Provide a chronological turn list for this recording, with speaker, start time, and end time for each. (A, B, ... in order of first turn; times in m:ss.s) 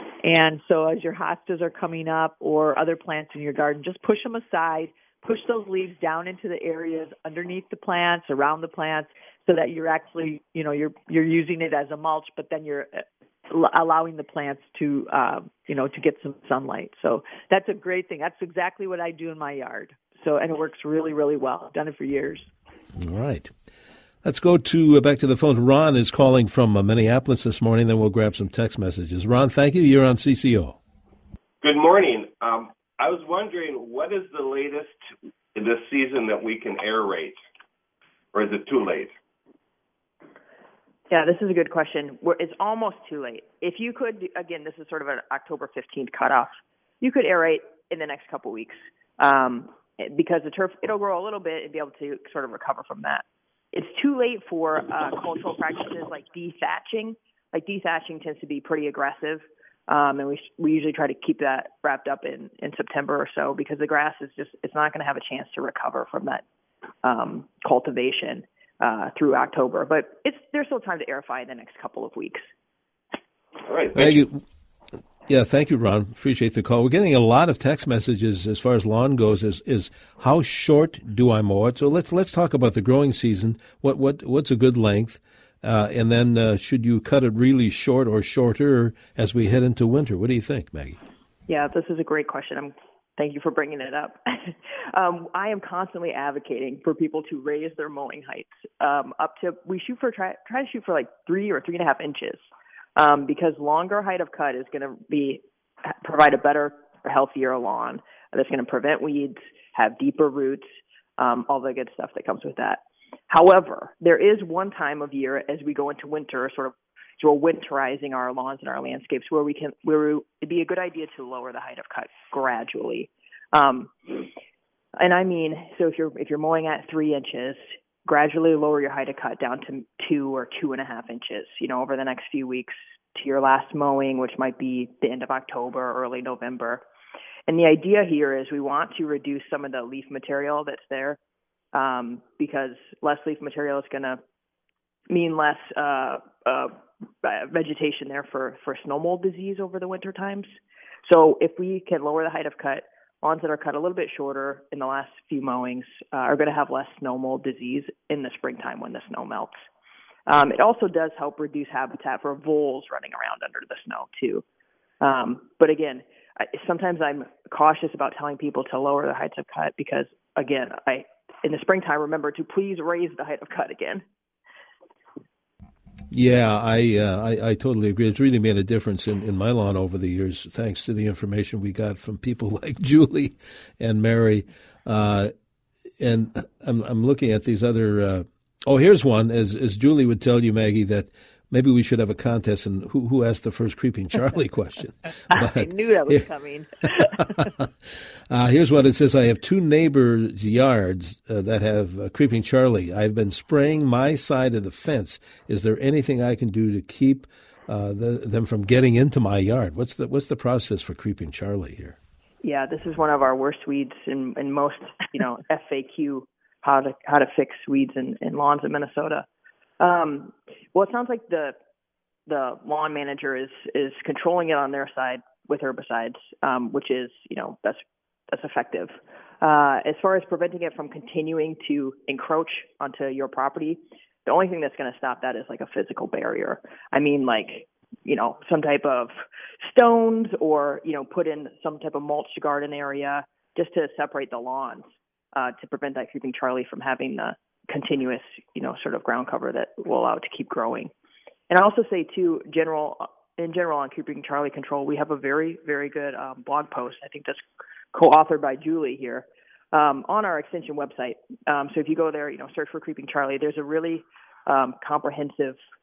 0:00.2-0:22.5 A
0:23.0-0:23.5 B
0:24.2-0:30.8 B
0:31.6-0:35.0 C
0:35.5-0:37.4 C
0:38.3-0:39.2 C
0:41.1-1:06.4 D
1:07.0-1:12.4 D
1:13.6-1:14.2 C
1:13.9-1:14.4 B
1:15.3-1:31.0 B
1:31.5-1:42.4 D
1:43.0-1:50.6 D
1:51.2-2:04.3 D
2:05.0-2:16.8 D
2:17.5-2:21.2 D
2:21.7-2:24.2 D
2:25.1-2:30.5 D
2:31.0-2:39.6 D
2:40.3-2:44.4 D
2:45.0-2:54.0 D
2:56.1-3:05.3 B
3:06.0-3:16.2 B
3:15.3-3:17.5 A
3:17.1-3:17.7 B
3:18.3-3:32.0 B
3:32.4-3:39.2 D
3:39.8-3:41.5 D
3:42.3-4:10.9 D
4:11.5-4:17.4 D
4:17.9-4:25.6 D